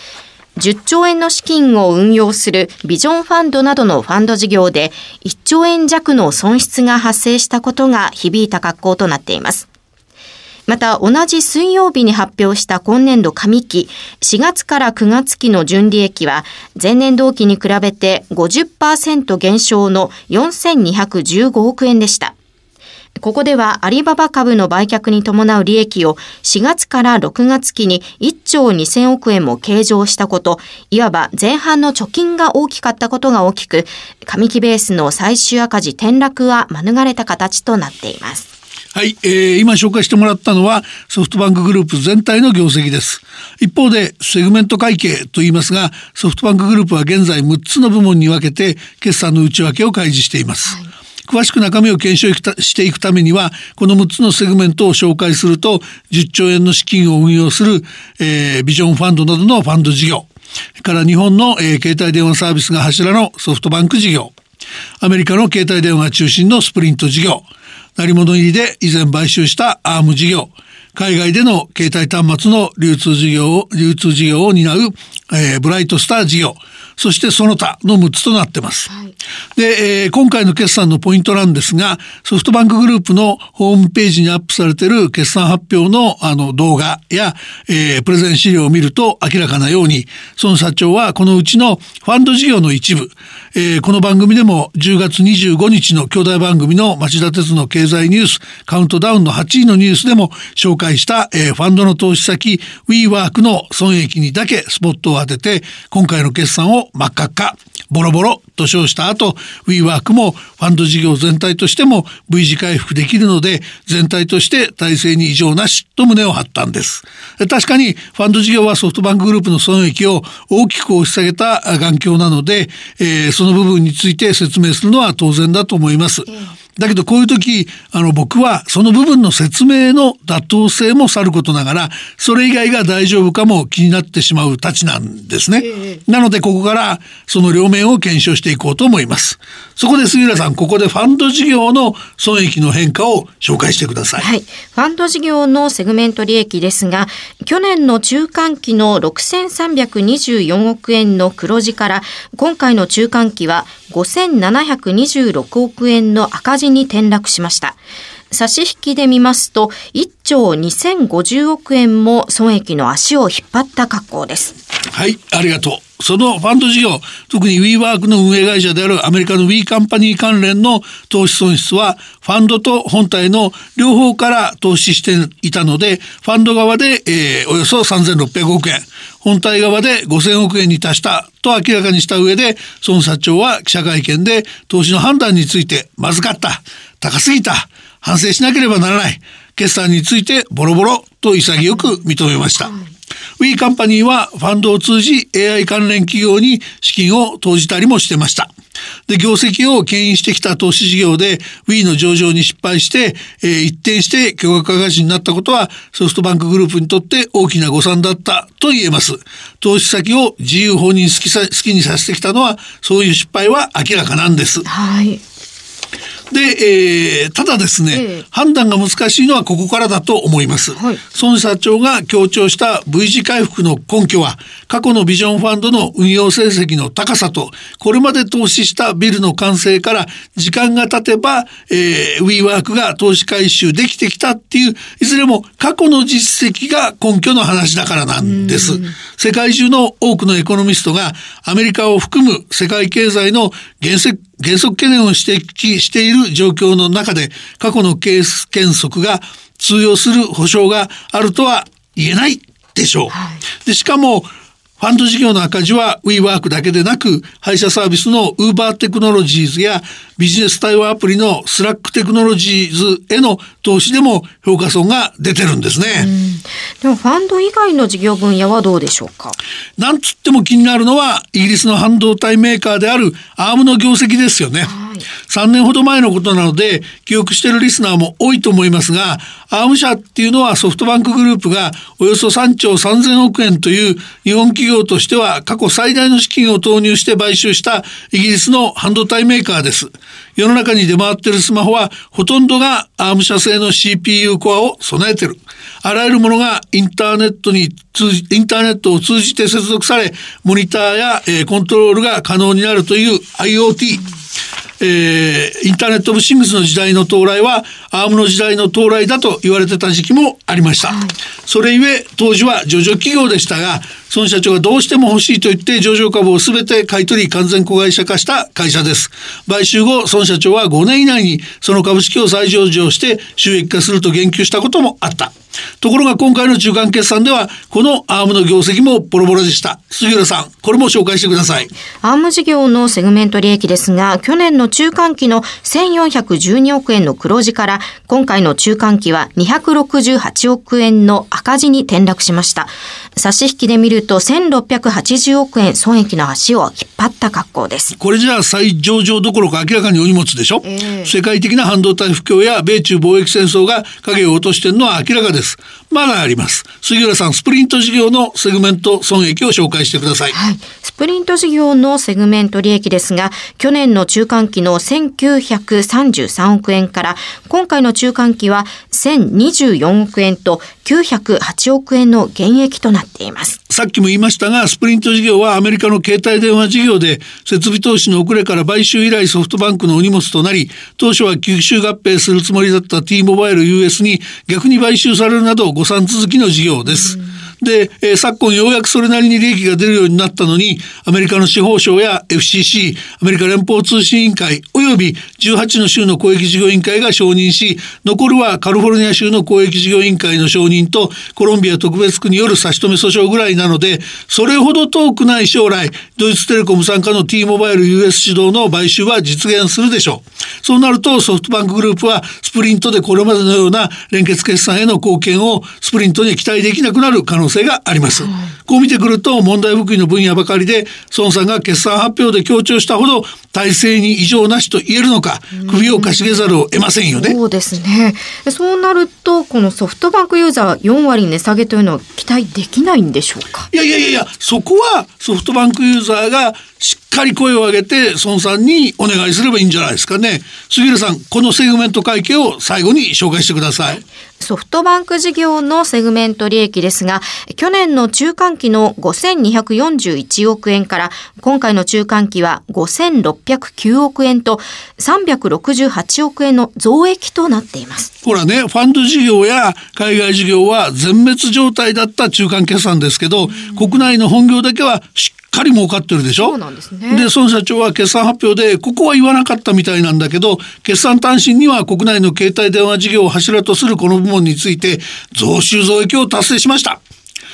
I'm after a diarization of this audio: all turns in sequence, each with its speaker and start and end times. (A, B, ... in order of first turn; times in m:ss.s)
0:00.6-0:09.7 A
0:10.7-0:22.3 A
0:23.2-0:38.5 A
0:38.9-1:00.3 B
1:00.8-1:04.3 B
1:05.0-1:07.4 B
1:08.0-1:18.9 B
1:19.6-2:24.2 B
2:24.2-2:37.8 A
2:38.3-2:44.6 A
2:44.9-3:12.8 B
3:13.4-3:18.5 B
3:19.1-3:34.7 B
3:34.7-3:35.2 A
3:36.3-4:26.1 B
3:37.9-3:38.2 A
3:40.8-3:41.0 A
3:58.5-3:58.9 A
4:13.1-4:13.4 A
4:25.9-4:29.4 A
4:29.8-4:34.7 B
4:34.6-4:35.1 A
4:35.2-5:04.0 B
5:04.8-5:31.7 B
5:32.0-5:48.0 A
5:48.0-6:00.4 B
5:50.6-5:51.1 A
6:00.3-6:13.6 A
6:13.7-7:07.4 B
7:05.6-7:06.2 A
7:07.2-7:13.7 A
7:13.7-7:24.0 B
7:24.4-7:38.1 A
7:38.2-7:46.6 B
7:46.4-7:47.3 A
7:47.1-7:57.0 B